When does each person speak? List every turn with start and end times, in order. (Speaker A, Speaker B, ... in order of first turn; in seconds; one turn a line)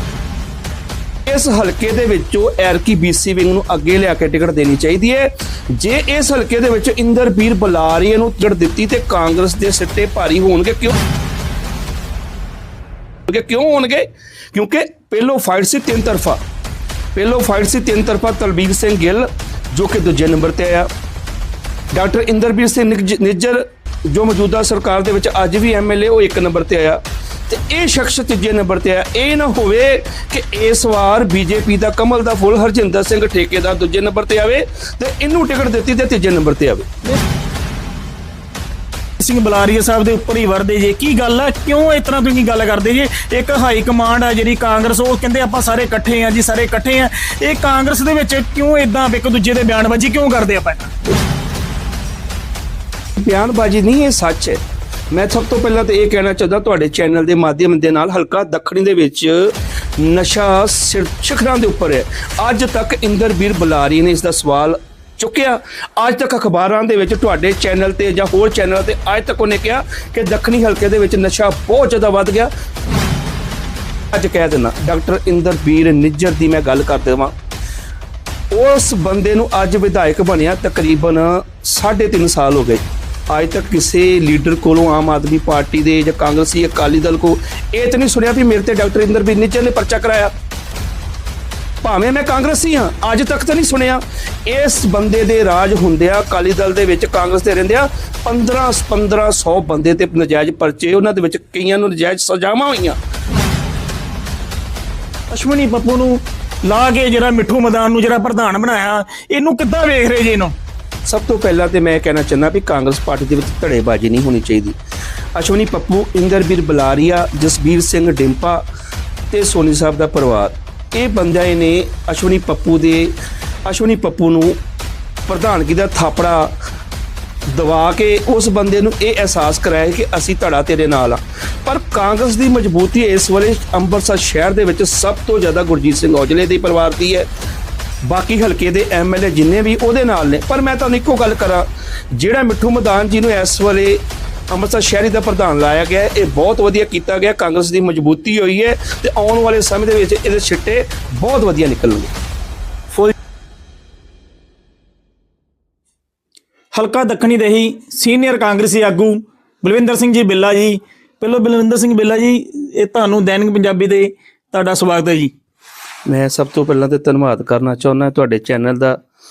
Speaker A: 1.2-10.9
Speaker A: 13.3-16.4
Speaker A: 17.1-20.9
Speaker A: 21.9-36.9
Speaker B: 39.2-50.9
Speaker A: 53.2-54.6
Speaker A: 55.1-72.5
Speaker A: 74.1-77.3
Speaker A: 78.5-90.3
Speaker A: 91.8-103.0
Speaker B: 105.3-110.5
Speaker A: 111.0-114.8
Speaker A: 115.3-118.6
Speaker A: 119.3-123.1
Speaker A: 123.7-124.6
Speaker A: 125.3-126.5
Speaker A: 127.5-137.3
Speaker A: 138.0-152.1
Speaker B: 156.7-165.3
Speaker A: 166.1-169.0